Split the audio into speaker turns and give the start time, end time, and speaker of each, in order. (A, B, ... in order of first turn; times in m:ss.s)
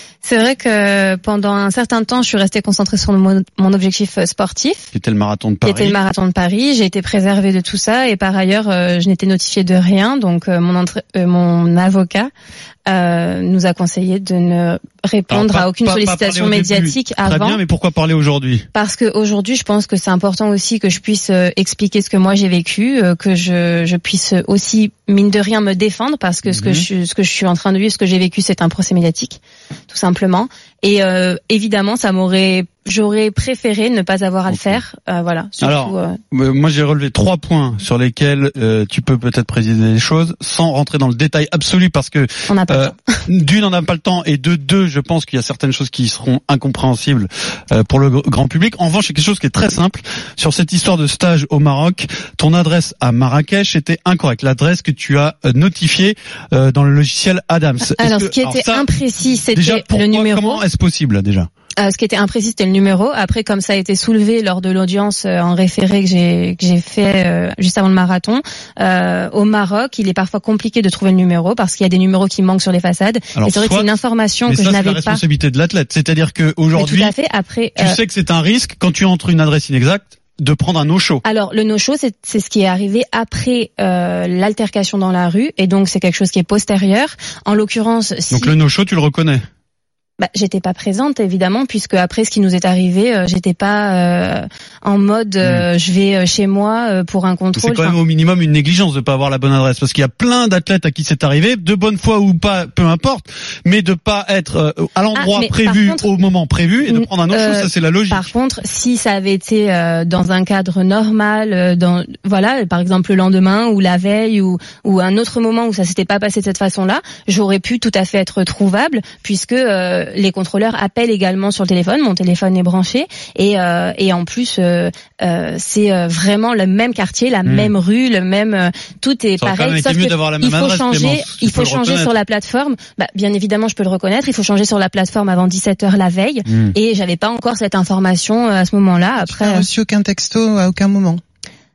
0:00.2-0:04.9 A
0:04.9-0:06.0 B
0:05.6-0:12.3 A
0:12.9-0:17.6 A
0:15.3-0:18.6 B
0:18.7-0:36.2 A
0:26.5-0:26.9 B
0:34.5-0:34.8 B
0:35.6-0:58.9 B
0:42.5-0:43.1 A
0:57.9-1:00.6 A
0:59.5-1:01.5 B
1:01.8-1:15.2 A
1:13.4-1:13.9 B
1:14.5-1:17.1 B
1:16.8-1:18.0 A
1:17.8-1:21.2 B
1:21.2-1:28.5 A
1:28.3-1:29.4 B
1:30.2-1:38.0 A
1:37.6-1:48.3 B
1:45.2-1:46.1 A
1:46.9-2:19.7 A
2:07.5-2:07.7 B
2:09.4-2:12.1 B
2:16.5-2:16.7 B
2:19.2-2:21.2 C